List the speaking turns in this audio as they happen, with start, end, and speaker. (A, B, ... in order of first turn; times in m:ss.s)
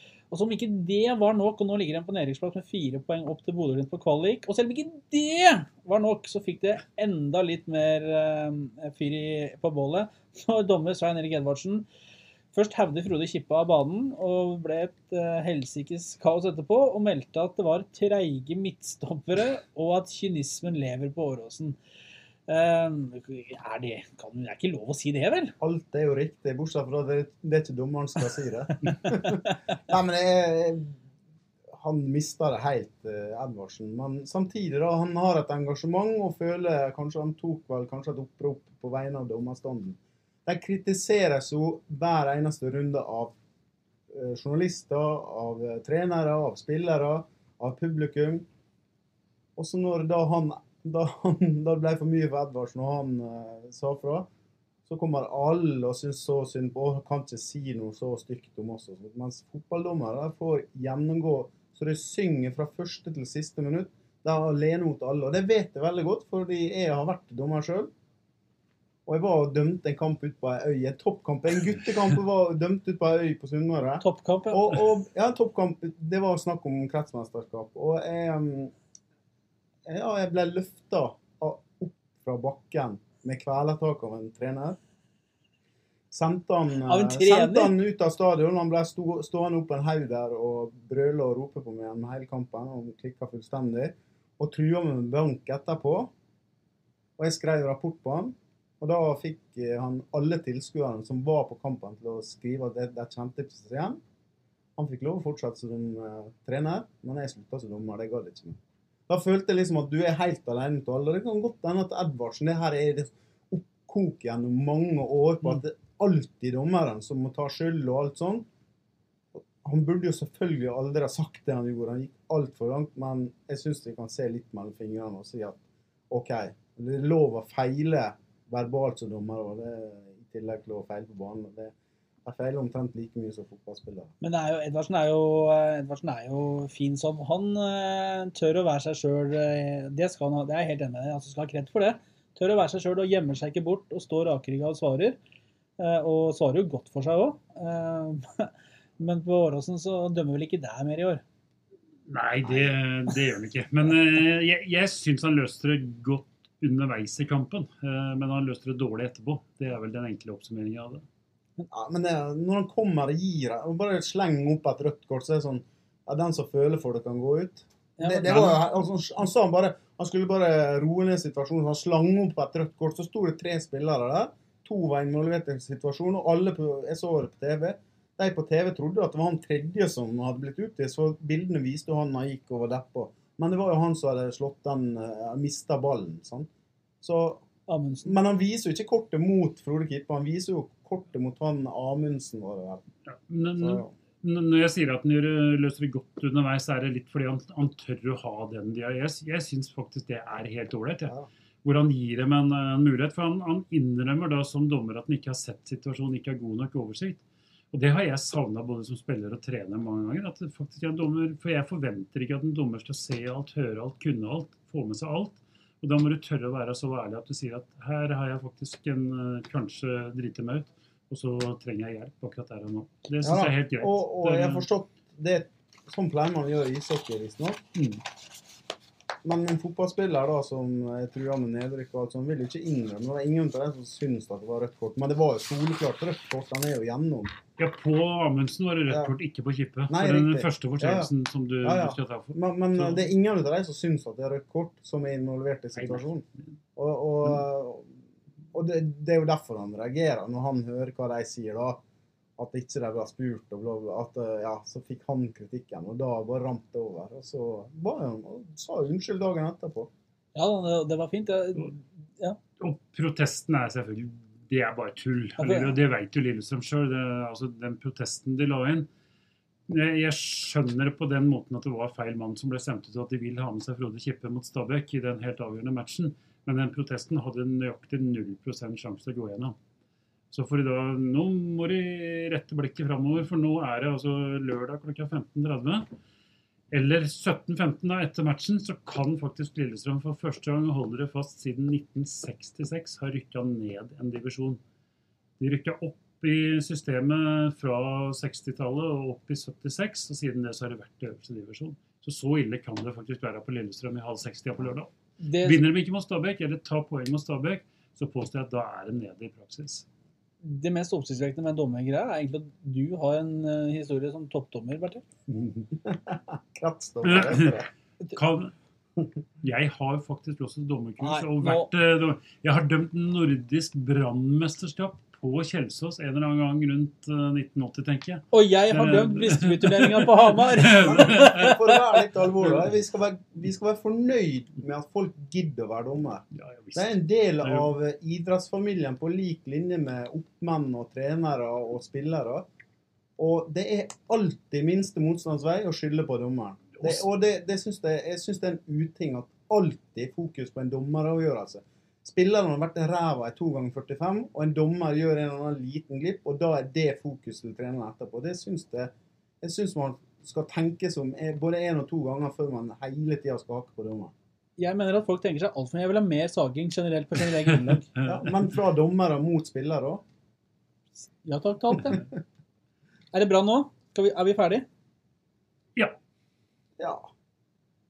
0:00.3-0:11.9 A
0:12.5-0:21.8 A
0:22.5-0:25.5 A
0:25.6-0:31.0 B
0:31.7-0:43.4 B
0:44.1-0:48.4 B
0:49.6-0:54.3 B
0:54.9-1:07.9 B
1:09.1-1:18.7 B
1:14.0-1:14.7 A
1:19.9-1:24.8 B
1:26.1-1:36.1 B
1:26.9-1:27.8 A
1:37.2-1:44.0 B
1:44.8-1:58.5 B
1:59.4-2:11.7 B
2:12.2-2:14.1 B
2:14.2-2:25.2 A
2:25.8-2:31.2 A
2:32.1-2:41.1 C
2:41.7-3:06.5 B
2:48.0-2:48.5 A
2:48.2-2:48.6 C
3:07.0-3:07.4 B
3:07.7-3:08.2 A
3:08.0-3:12.8 B
3:13.1-3:44.6 C
3:13.6-3:13.9 B
3:43.2-3:47.6 B
3:49.2-3:57.4 B
3:57.6-4:03.1 C
3:58.9-3:59.1 B
3:59.9-4:01.1 B
4:01.6-4:06.2 B
4:05.8-4:06.1 C
4:06.8-4:07.9 B
4:08.5-4:11.8 B
4:12.4-4:19.9 B
4:20.4-4:22.4 A
4:22.6-4:28.9 C
4:25.4-4:25.8 A
4:29.7-4:39.6 C
4:40.3-4:45.9 C
4:46.7-4:54.6 C
4:55.4-5:09.9 C
5:05.2-5:05.7 A
5:10.4-5:15.0 A
5:15.3-5:17.7 B
5:17.0-5:18.5 C
5:19.4-5:31.5 C
5:21.0-5:21.7 A
5:28.3-5:31.6 A
5:30.8-5:42.5 B
5:36.4-5:37.7 C
5:43.2-6:04.1 B
5:46.7-5:47.0 C
6:04.6-6:07.9 A
6:08.0-6:08.3 C
6:08.0-6:10.0 B
6:11.2-6:12.0 A
6:13.1-6:14.7 A
6:16.8-6:17.1 B